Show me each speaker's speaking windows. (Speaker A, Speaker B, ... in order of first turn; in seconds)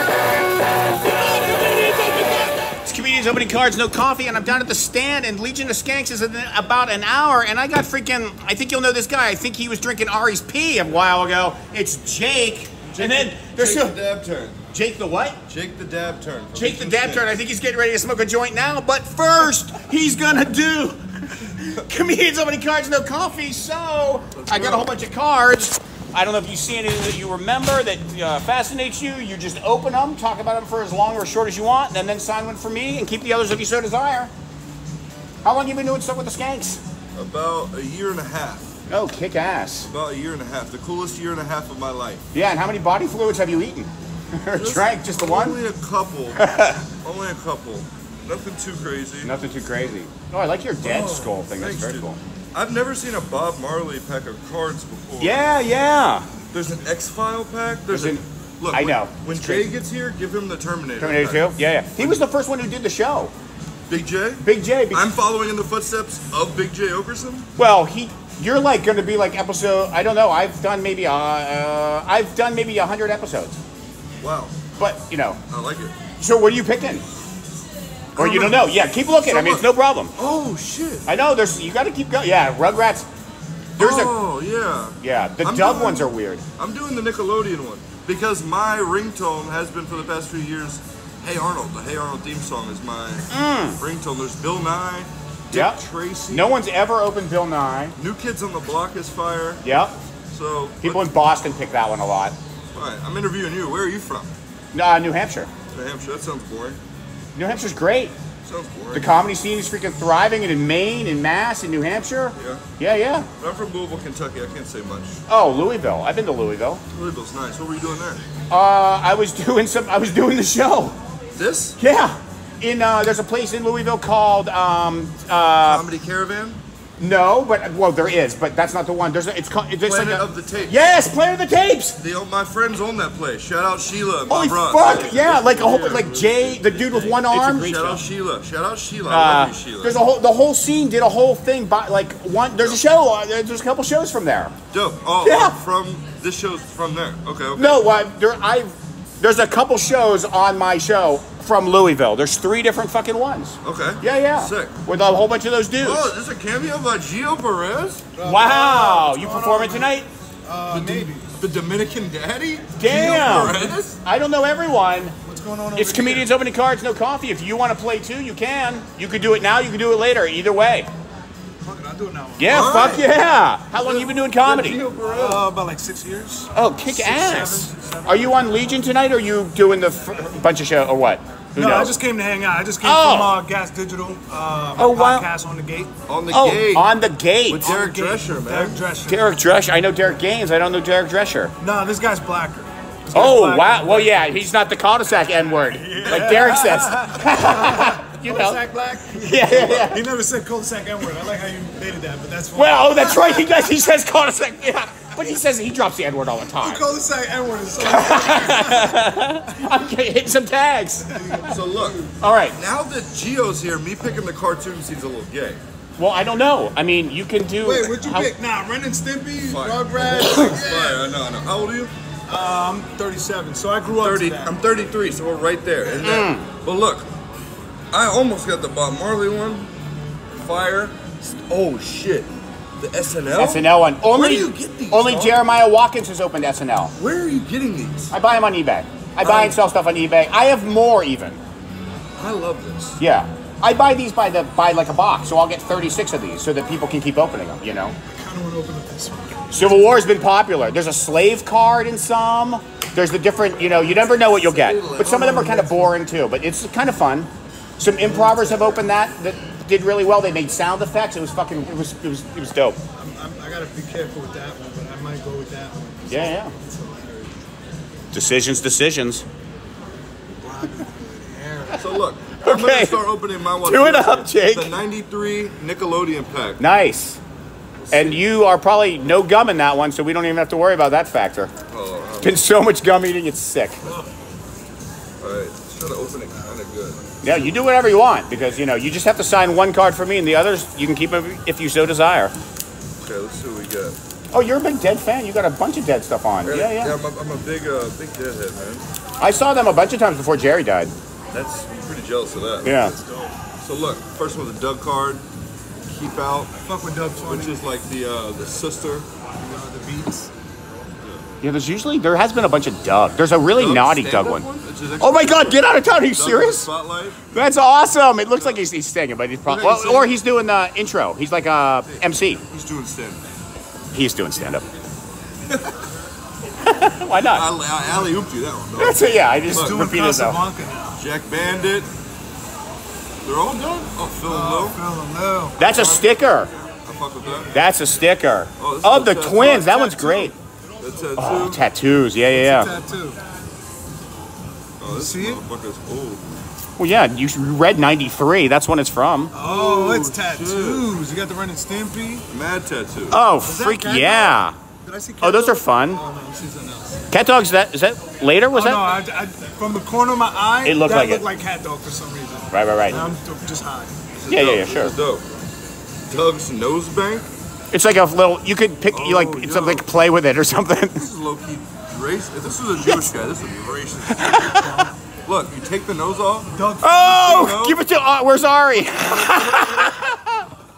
Speaker A: 1.0-2.6, 158.2-161.2, 162.8-163.8, 165.2-166.3, 171.6-172.8, 175.1-178.7, 181.6-185.9, 187.6-189.4, 191.6-194.2, 195.7-203.8, 206.6-209.1, 211.1-212.1, 217.6-221.1, 222.3-224.6, 248.1-249.8, 262.9-267.4, 270.4-272.0, 302.6-303.4, 306.7-307.6, 309.4-310.3, 329.5-331.0, 334.2-335.6, 339.7-340.4, 342.3-343.2, 344.9-345.4, 349.3-352.2, 353.4-357.0, 358.5-363.9, 374.4-375.0, 376.5-377.5, 378.9-379.9
Speaker B: 2.9-14.0, 14.7-15.4, 16.5-34.3, 35.4-36.8, 38.9-39.9, 42.3-45.6, 46.4-46.9, 49.2-52.2, 55.2-56.3, 57.9-59.7, 61.0-63.3, 64.4-65.0, 67.6-73.6, 74.8-75.4, 76.2-77.0, 78.2-80.1, 81.1-83.1, 83.8-84.2, 85.0-86.4, 93.3-93.8, 95.5-98.0, 99.6-100.0, 100.8-102.3, 104.7-105.5, 107.3-108.1, 108.9-113.3, 115.3-116.8, 118.5-121.0, 121.8-125.8, 127.0-132.0, 134.3-138.0, 139.1-144.6, 145.2-145.6, 147.6-156.1, 158.2-160.1, 162.8-165.2, 165.8-170.9, 172.4-174.8, 176.6-181.9, 182.8-183.4, 184.8-185.3, 186.3-187.8, 189.1-191.5, 193.1-198.6, 199.2-200.0, 202.6-206.8, 207.8-211.5, 212.2-212.6, 216.0-218.3, 220.2-220.6, 226.0-226.5, 233.3-236.9, 238.1-241.4, 243.0-247.9, 249.5-262.8, 266.1-266.5, 268.1-269.2, 272.4-273.0, 273.6-274.7, 276.6-277.2, 277.9-281.5, 282.2-283.8, 287.2-292.3, 294.3-297.0, 299.2-300.9, 302.6-302.9, 311.4-314.4, 315.0-316.7, 317.3-322.4, 323.9-324.6, 326.6-327.4, 328.8-330.4, 335.6-336.5, 337.5-340.3, 341.2-342.7, 346.8-349.3, 353.1-354.6, 355.2-356.0, 357.1-358.9, 360.6-361.2, 362.5-363.1, 364.3-364.9, 367.7-371.1, 374.1-374.7, 376.8-380.4
Speaker C: 12.9-14.6, 15.5-17.3, 24.3-25.0, 37.1-38.7, 39.9-42.2, 44.5-46.4, 47.0-49.3, 50.8-55.6, 56.5-62.2, 63.9-67.5, 74.2-74.6, 75.5-76.0, 78.2-78.7, 79.2-81.1, 83.8-96.6, 98.0-99.7, 100.3-101.2, 102.7-104.3, 105.7-106.8, 108.4-109.2, 112.4-112.6, 113.4-115.2, 116.9-118.2, 121.4-121.8, 125.6-126.6, 129.8-130.9, 132.0-140.0, 142.6-142.8, 144.7-147.9, 153.6-154.8, 155.8-158.1, 160.7-164.0, 172.4-173.2, 173.7-175.5, 186.1-186.9, 187.5-188.8, 196.1-196.6, 199.6-199.8, 211.5-215.6, 219.4-221.9, 223.9-227.1, 227.9-229.7, 230.3-235.4, 237.0-238.1, 239.2-239.6, 242.2-243.0, 254.4-255.9, 271.8-276.6, 277.8-278.2, 281.7-282.4, 285.2-287.5, 293.0-294.0, 296.4-298.9, 301.3-302.8, 303.6-305.2, 305.9-306.6, 307.2-309.1, 313.6-317.2, 318.3-318.6, 319.5-320.2, 321.9-323.2, 327.2-329.8, 330.9-331.9, 333.2-334.8, 335.6-336.2, 336.8-337.6, 338.6-339.9, 340.8-341.6, 344.8-346.2, 349.4-350.9, 352.3-353.2, 364.1-365.2, 366.1-367.3, 368.9-369.9, 370.9-374.5, 375.3-376.5, 377.1-377.8